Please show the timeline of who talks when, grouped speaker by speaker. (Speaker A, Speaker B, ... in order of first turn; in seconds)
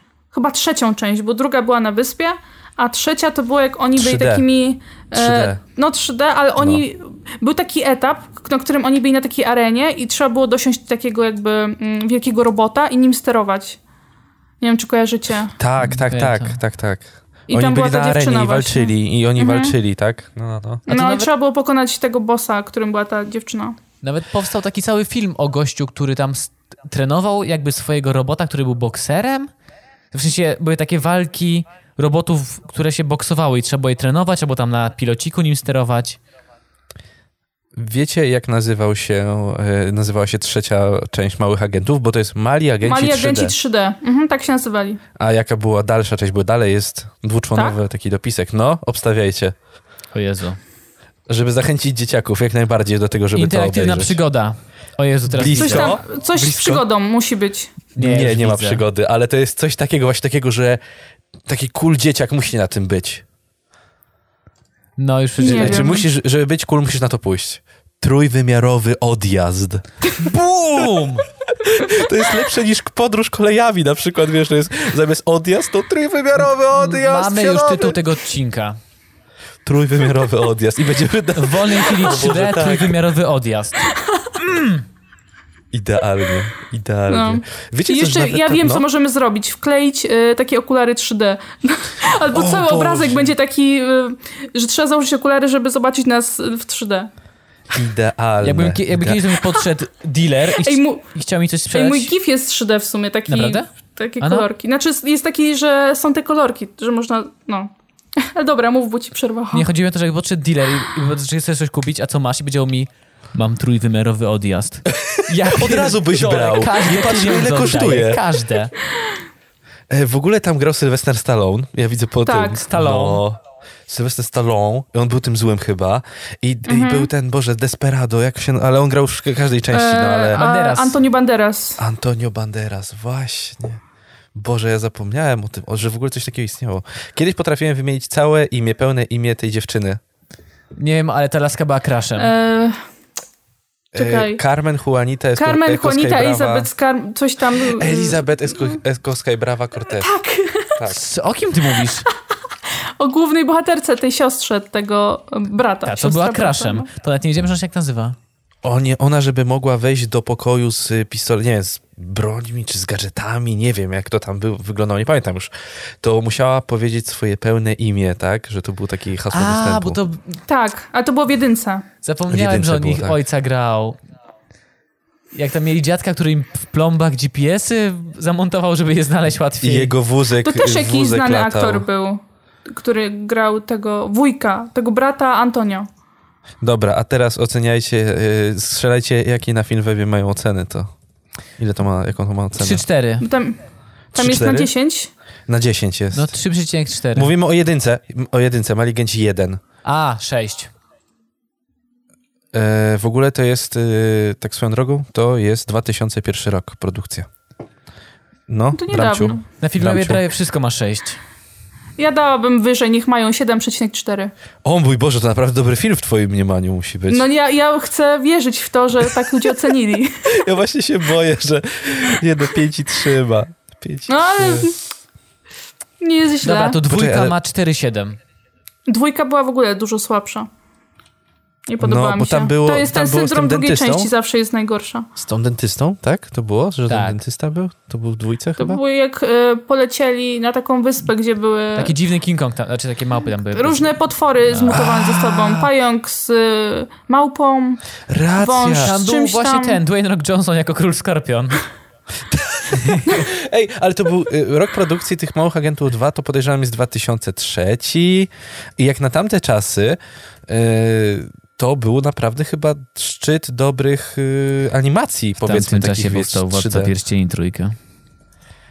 Speaker A: 0.3-13.8, 14.6-15.6, 17.5-19.7, 20.9-23.8, 42.8-45.0, 55.4-57.8, 65.4-66.1, 83.9-84.3, 87.1-97.1, 100.5-101.1, 101.7-109.7, 122.2-122.7, 126.7-127.1, 129.7-131.8, 142.2-142.9, 143.9-144.4, 145.4-148.8, 149.8-150.8, 151.8-152.1, 152.8-156.9, 170.5-171.8, 180.4-185.9, 193.2-193.6, 194.1-195.1, 208.7-209.4, 212.0-214.3, 217.1-220.2, 224.1-224.8, 226.0-226.8, 228.9-230.5, 231.7-235.1, 238.6-241.9, 243.5-249.8
Speaker B: 4.0-4.4, 5.1-5.6, 6.6-6.8, 15.6-20.9, 37.8-43.5, 45.2-49.5, 51.3-54.2, 55.3-56.8, 58.0-60.8, 61.4-63.2, 65.4-69.8, 71.6-78.0, 79.7-83.0, 85.7-88.8, 92.3-93.3, 97.7-99.2, 114.9-118.2, 119.9-130.4, 131.8-133.8, 134.3-140.0, 143.9-146.7, 147.7-150.1, 150.7-151.0, 158.6-170.0, 172.3-173.2, 179.6-181.8, 186.6-190.9, 191.6-192.8, 194.1-194.7, 195.5-196.3, 197.1-199.6, 202.5-207.3, 208.5-210.2, 214.6-217.2, 220.2-224.7, 226.9-227.3, 231.8-234.1, 235.2-238.8, 244.7-245.7, 248.1-248.9, 252.3-266.9
Speaker C: 15.8-16.6, 20.9-21.3, 24.0-29.5, 30.1-36.2, 50.1-50.6, 53.3-56.0, 57.9-58.8, 65.0-66.0, 70.1-71.2, 76.7-78.8, 81.3-84.8, 98.4-102.1, 103.3-103.7, 104.2-104.5, 109.5-118.7, 122.7-123.2, 130.3-131.0, 140.8-142.3, 150.9-152.1, 155.8-158.2, 169.3-170.4, 172.0-174.0, 175.3-179.9, 192.6-193.3, 196.1-197.3, 199.8-200.7, 209.6-211.2, 226.4-228.2, 236.9-237.2, 241.8-244.8, 248.8-251.6, 252.7-253.2, 265.4-267.8